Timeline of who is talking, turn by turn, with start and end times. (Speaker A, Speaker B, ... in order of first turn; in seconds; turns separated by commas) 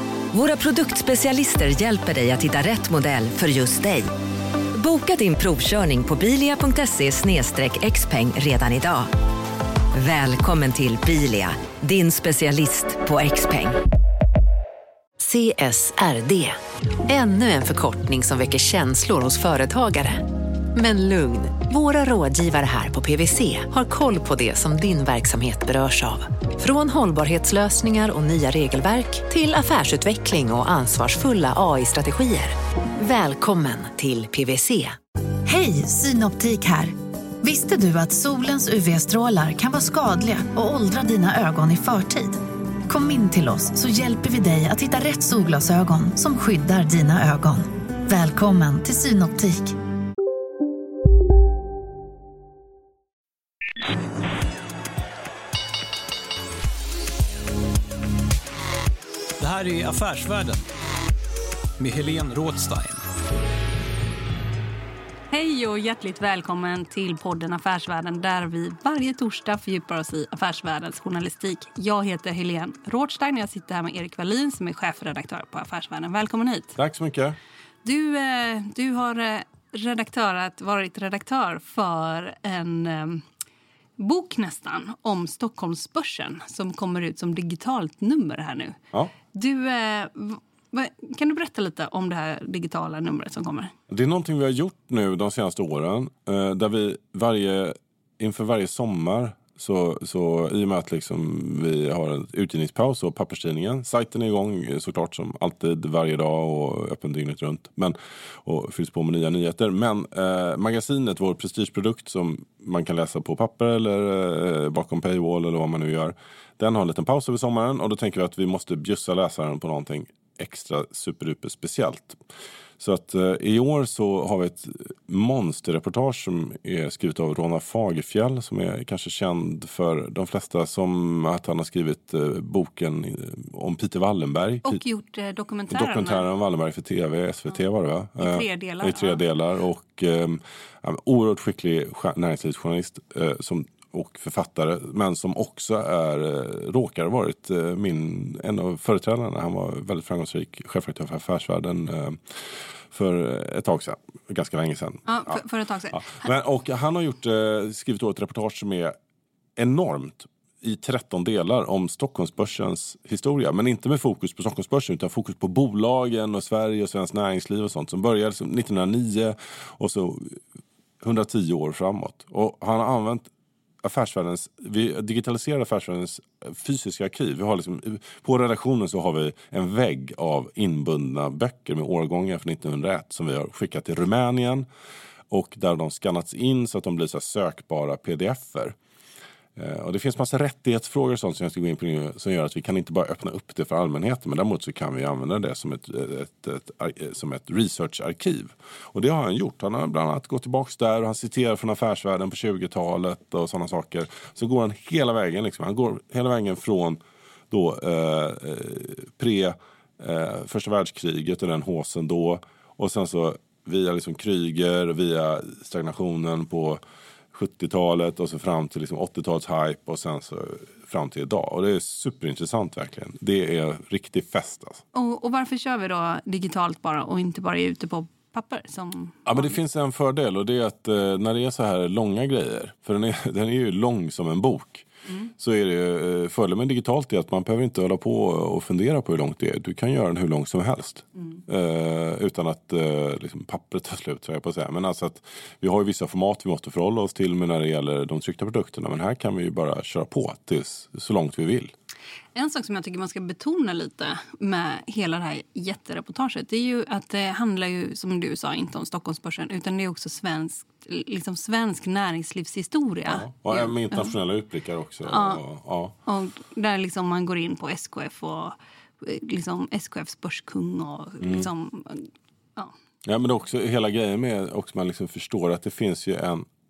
Speaker A: 0.3-4.1, Speaker A: 4.7-9.1, Speaker A: 9.9-13.8, Speaker B: 15.2-35.0, Speaker C: 35.4-49.8, Speaker D: 59.4-60.6, Speaker D: 61.8-63.0, Speaker E: 65.3-76.7, Speaker F: 76.8-77.4, Speaker E: 77.8-83.2, Speaker E: 84.0-88.8, Speaker E: 89.3-93.7, Speaker F: 93.9-122.2, Speaker F: 122.8-134.8, Speaker E: 134.6-136.2, Speaker F: 135.7-152.4, Speaker E: 138.2-139.2, Speaker F: 152.9-155.4, Speaker E: 155.1-156.3, Speaker F: 155.9-158.9, Speaker F: 159.6-170.4, Speaker F: 171.0-173.3, Speaker F: 173.8-184.7, Speaker F: 185.3-188.7, Speaker F: 189.6-207.0, Speaker F: 207.5-216.8, Speaker F: 217.3-224.8, Speaker E: 224.9-229.5, Speaker F: 229.2-234.8, Speaker F: 235.4-251.7, Speaker E: 252.3-264.1, Speaker F: 263.1-265.9, Speaker E: 265.1-265.4, Speaker E: 266.0-272.7, Speaker F: 271.2-271.5, Speaker F: 273.0-276.5